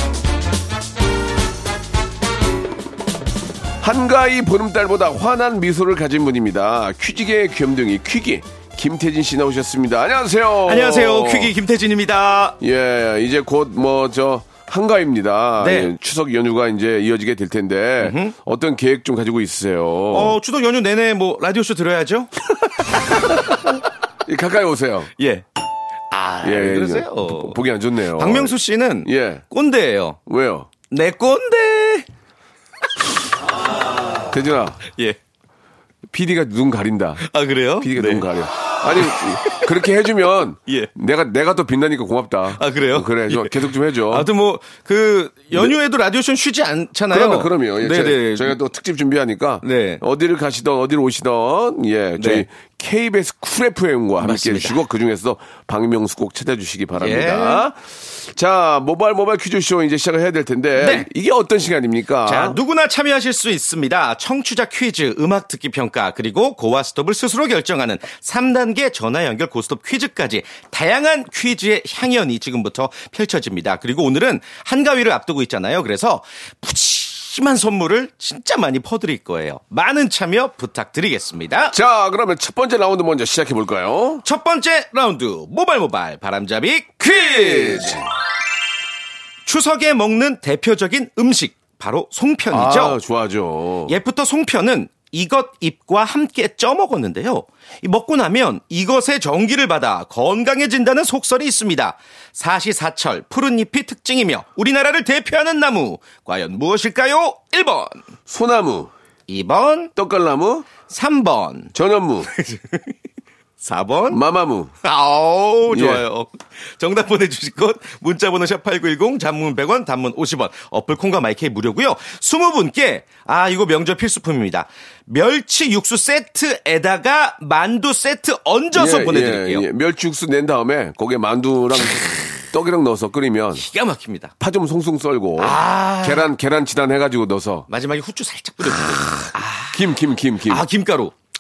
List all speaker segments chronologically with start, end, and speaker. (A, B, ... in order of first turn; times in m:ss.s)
0:03.8-0:11.5 A
0:10.6-0:12.6 B
0:12.6-0:20.4 A
0:15.6-0:15.9 B
0:18.0-0:18.4 B
0:20.1-0:22.3 B
0:24.2-0:25.1 A
0:25.2-0:25.4 B
0:26.1-0:27.6 B
0:26.4-0:29.4 A
0:28.2-0:30.2 B
0:30.2-0:30.7 A
0:30.9-0:32.1 B
0:34.3-0:34.8 A
0:34.9-0:35.2 B
0:36.1-0:37.2 A
0:37.2-0:38.3 B
0:37.8-0:44.3 A
0:38.9-0:39.7 B
0:42.6-0:48.6 B
0:47.1-1:02.6 A
0:49.6-0:50.0 B
0:52.2-0:52.4 B
0:54.2-0:54.8 B
0:57.0-0:57.6 B
1:00.8-1:01.1 B
1:02.2-1:21.7 B
1:21.7-1:24.2 A
1:24.2-1:28.0 B
1:27.0-1:28.1 A
1:29.4-1:33.0 B
1:32.5-1:33.9 A
1:33.9-1:48.0 B
1:48.3-1:48.9 A
1:49.3-1:49.9 B
1:50.0-1:50.7 A
1:50.9-1:51.7 B
1:51.7-1:52.3 A
1:52.3-1:52.9 B
1:53.6-1:54.2 B
1:54.1-1:54.7 A
1:54.8-2:09.7 B
1:55.7-1:56.0 A
2:08.7-2:13.6 A
2:13.6-2:14.3 B
2:14.4-2:17.7 A
2:15.4-2:16.3 B
2:17.7-2:19.8 B
2:19.7-2:20.6 A
2:20.4-2:21.1 B